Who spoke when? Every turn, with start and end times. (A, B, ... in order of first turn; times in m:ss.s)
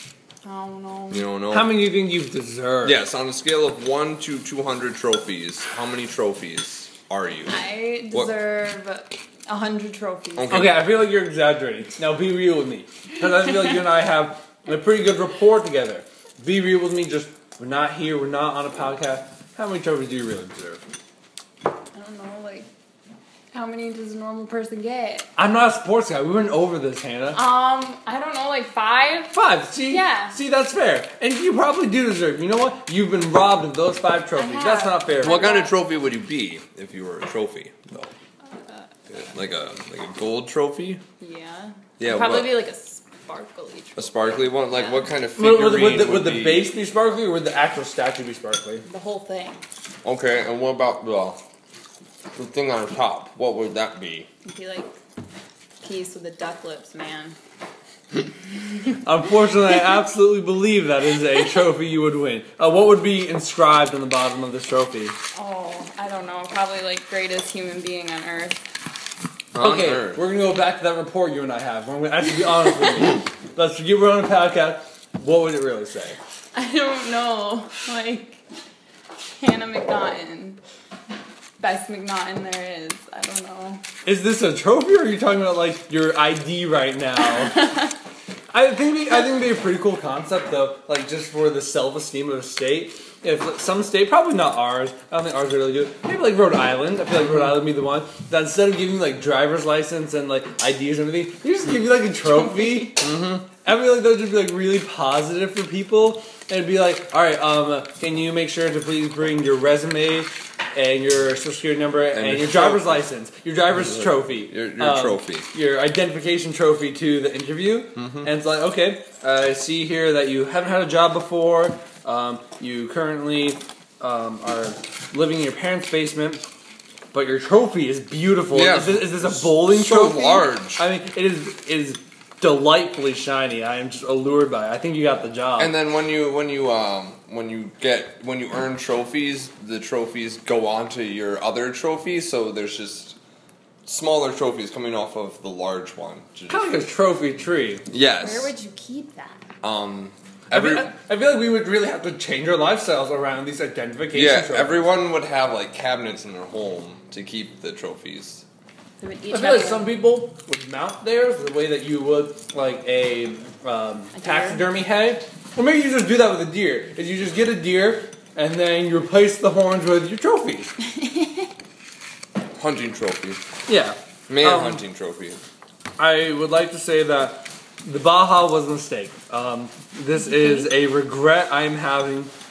0:00.4-0:01.3 A
0:01.1-0:01.9 B
0:01.5-0:03.0 C
0:02.8-0:07.5 B
0:07.5-0:10.7 A
0:10.4-0:10.8 B
0:10.5-0:20.8 C
0:21.9-0:22.7 A
0:23.5-0:25.3 A
0:25.4-0:27.4 C
0:27.3-0:30.4 A
0:29.3-0:35.6 C
0:34.4-0:35.8 A
0:35.2-0:38.1 B
0:38.5-0:38.9 A
0:39.1-0:41.0 B
0:41.2-0:45.1 A
0:42.0-0:42.5 B
0:44.0-0:46.7 B
0:45.4-0:48.8 C
0:48.9-0:49.6 A
0:50.0-0:51.4 B
0:52.4-0:54.3 B
0:54.4-0:54.9 A
0:55.8-0:57.4 A
0:59.0-1:05.2 C
1:05.3-1:08.6 A
1:09.6-1:10.2 B
1:09.6-1:16.2 C
1:16.5-1:18.4 A
1:19.4-1:20.6 A
1:21.6-1:23.8 A
1:24.0-1:27.9 C
1:27.4-1:27.9 A
1:28.5-1:43.0 C
1:43.0-1:43.5 B
1:43.6-2:06.4 C
1:52.1-1:53.0 B
1:53.8-1:55.5 B
1:58.0-1:58.4 B
2:07.1-2:15.8 C
2:08.5-2:10.8 B
2:15.6-2:23.2 B
2:23.9-2:26.7 B
2:26.5-2:27.8 C
2:27.9-2:28.5 B
2:28.2-2:29.4 A
2:29.6-2:30.9 B
2:30.5-2:35.0 C
2:34.1-2:38.4 B
2:39.0-2:39.9 A
2:39.3-2:50.7 C
2:44.1-2:44.7 A
2:51.0-2:51.5 A
2:52.6-2:53.4 B
2:53.7-2:54.8 C
2:54.3-2:55.4 B
2:56.0-3:02.3 C
3:00.2-3:00.7 A